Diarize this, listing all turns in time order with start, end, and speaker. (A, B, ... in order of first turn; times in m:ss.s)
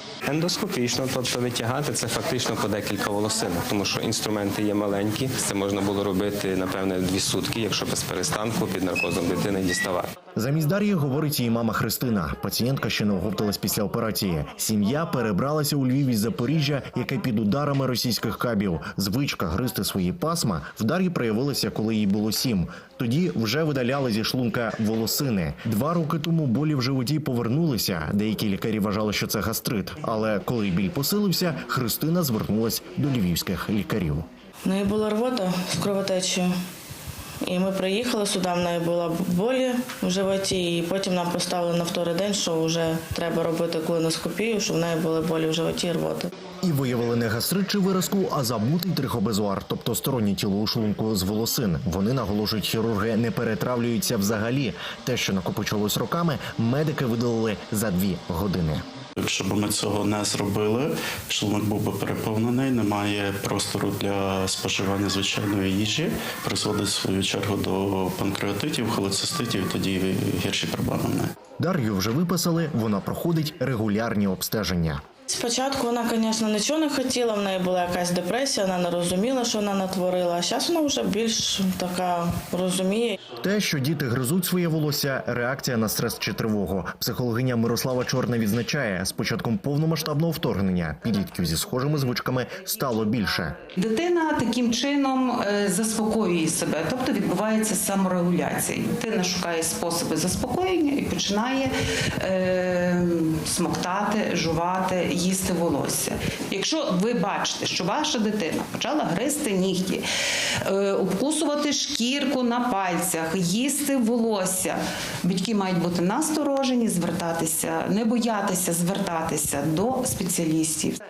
0:00.3-0:10.1 A
0:10.4-0:34.2 B
0:34.6-0:36.5 C
0:37.4-0:46.3 C
0:46.6-0:58.8 B
0:59.2-1:11.3 D
1:11.6-1:15.0 B
1:15.3-1:23.2 C
1:23.4-1:33.6 B
1:33.8-1:50.0 E
1:50.6-2:01.0 E